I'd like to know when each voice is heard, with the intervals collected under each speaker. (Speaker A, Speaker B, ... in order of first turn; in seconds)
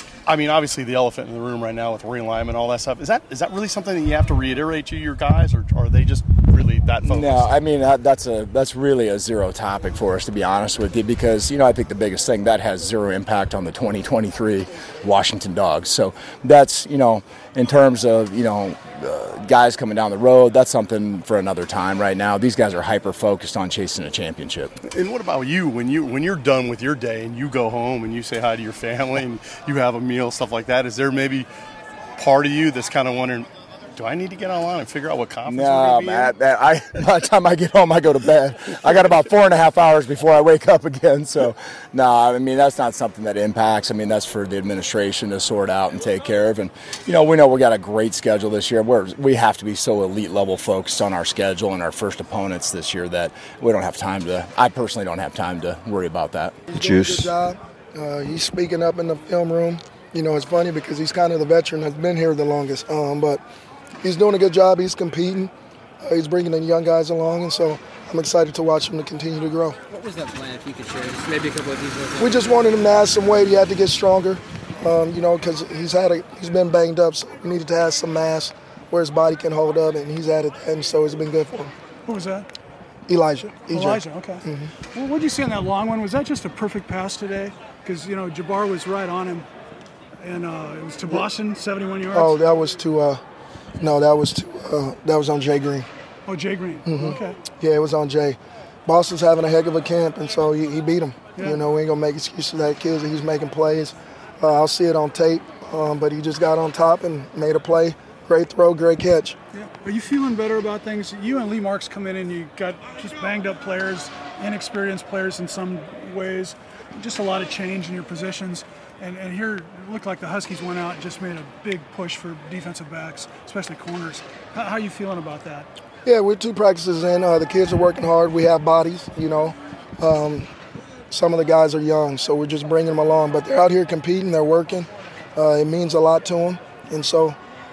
Speaker A: 0.3-7.6, 24.9-31.5, 32.2-36.3
Speaker B: 7.0-24.7, 35.5-56.7
Speaker C: 56.7-63.4, 64.0-65.5, 66.0-69.8, 72.2-81.7, 83.1-84.7, 92.1-93.2, 93.8-95.9, 96.9-109.4, 126.0-130.5, 131.1-137.4
Speaker D: 69.9-72.8
Speaker E: 82.1-82.5, 83.7-89.5, 90.2-92.4, 96.3-97.4, 101.4-101.6, 109.5-125.7